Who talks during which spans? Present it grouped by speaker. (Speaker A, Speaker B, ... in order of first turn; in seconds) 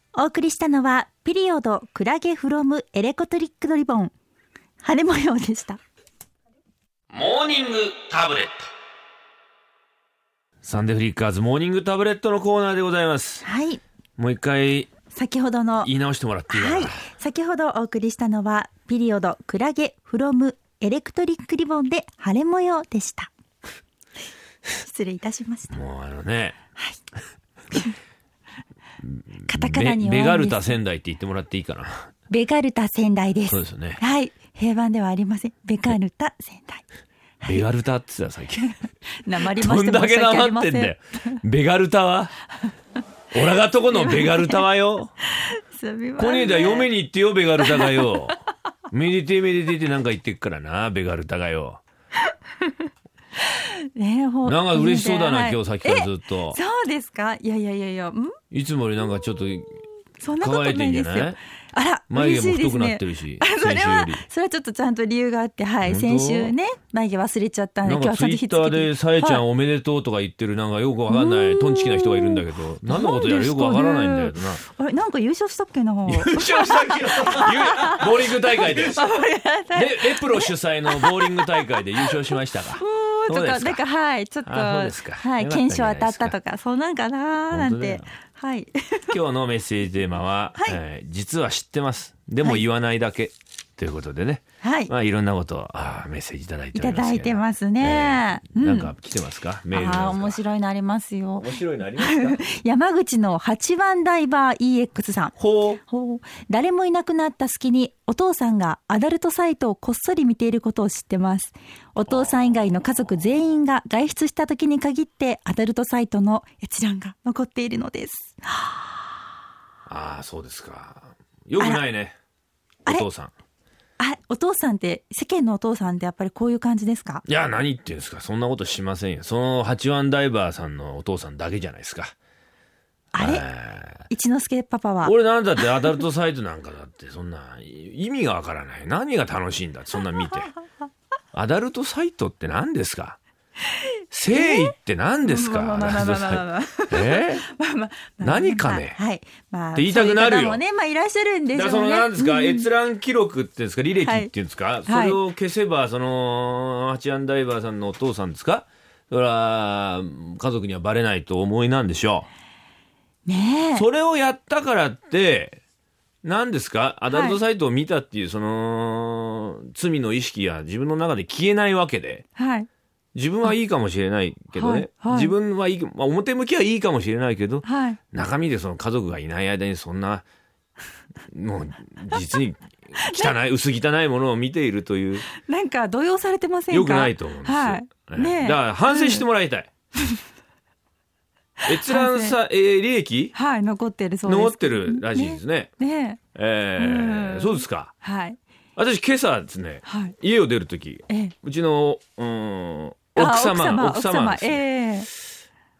Speaker A: 0.1-4.1, 4.8-5.8, 13.4-13.8, 15.1-15.9, 16.5-23.3, 24.8-25.8, 29.4-30.8, 32.3-36.8, 38.6-41.4, 43.9-44.6, 45.4-46.9, 47.6-48.1, 52.6-52.9, 53.5-58.4, 60.2-69.4, 71.1-82.1, 82.7-89.1, 94.6-94.9, 96.7-98.9, 99.7-118.8, 124.0-127.2, 133.1-133.4, 134.1-135.1, 143.7-144.7, 145.2-152.7, 154.0-154.3, 154.8-155.2, 163.2-163.8, 167.1-167.4, 172.3-172.7, 174.5-175.3, 177.6-178.0, 183.0-183.3, 185.3-189.2, 191.7-192.3, 193.3-196.2, 196.8-198.4, 199.8-200.1, 201.1-201.3, 203.1-205.1
Speaker B: 7.1-8.7, 10.6-13.4, 14.2-14.9, 15.8-17.0, 25.7-26.6, 29.0-32.0, 33.5-34.0, 37.4-38.7, 39.4-42.3, 43.3-45.1, 46.2-51.8, 54.4-56.6, 58.5-59.8, 60.4-61.4, 62.1-64.2, 65.8-66.5, 67.8-74.6, 76.1-79.1, 79.7-83.8, 84.4-86.3, 87.5-88.1, 89.1-100.4, 101.3-102.4, 105.4-105.8, 112.1-112.3, 119.9-122.2, 122.8-123.3, 127.2-132.1, 133.2-134.0, 135.0-140.5, 141.3-143.2, 144.1-147.4, 148.2-149.0, 149.7-150.6, 151.5-162.3, 163.7-165.6, 166.2-172.2, 173.1-180.2, 181.3-185.3, 186.7-189.7, 191.7-193.3, 194.2-195.7, 196.3-197.9, 198.8-204.7